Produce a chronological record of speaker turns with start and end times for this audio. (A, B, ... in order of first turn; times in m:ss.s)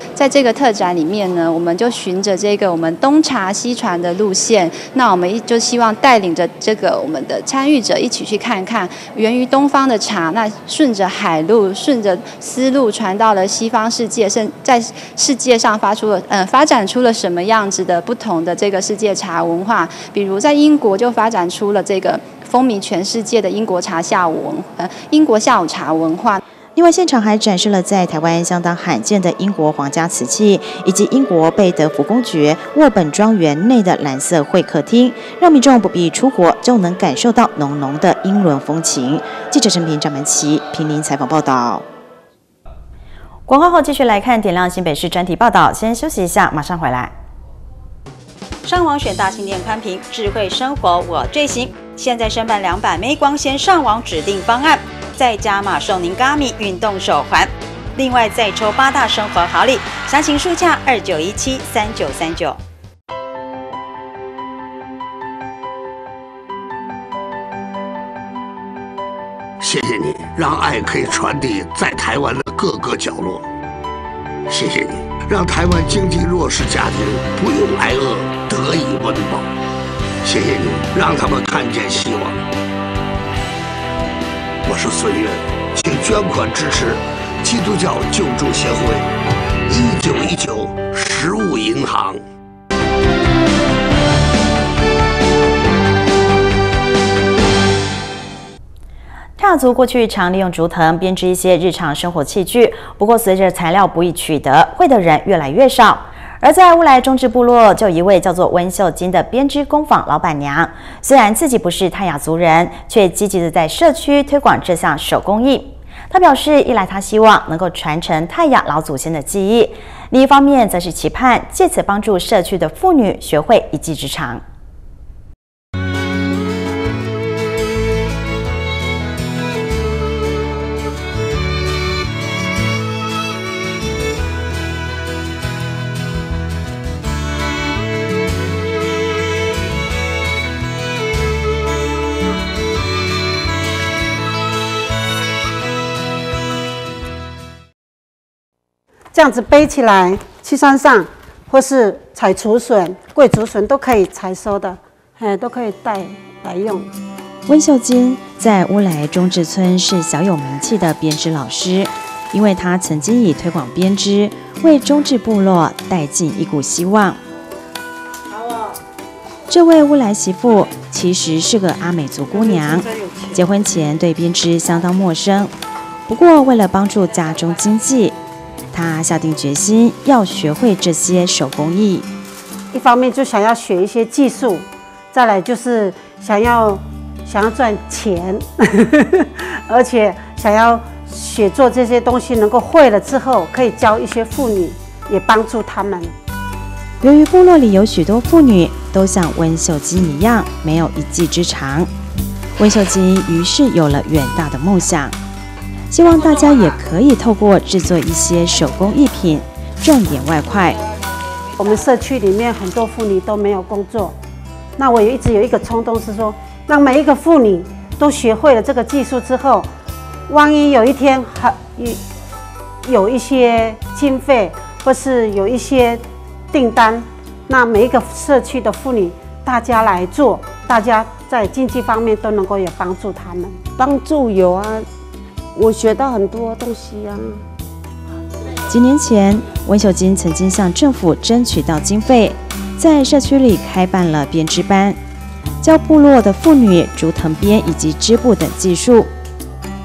0:00.2-0:26.4 A
0:26.8-0:41.8 B
0:43.5-0:47.1 B
0:48.6-1:02.6 B
1:09.6-1:13.5 C
1:14.5-1:19.5 C
1:20.2-1:22.4 C
1:24.6-1:29.1 C
1:29.6-1:32.2 C
1:39.4-2:04.4 B
2:29.1-2:36.9 D
2:37.5-2:47.2 B
2:49.5-2:55.5 B
2:52.3-2:53.4 D
2:56.1-2:58.2 B
2:58.7-3:02.1 B
3:02.7-3:16.1 D
3:17.0-3:21.9 B
3:22.6-3:25.2 B
3:25.9-3:30.8 B
3:31.6-3:34.1 D
3:34.8-3:39.7 D
3:40.3-3:42.0 D
3:42.8-3:53.6 D
3:53.8-3:54.9 E
3:55.5-3:57.4 E
3:58.7-4:05.0 B
4:05.6-4:09.1 B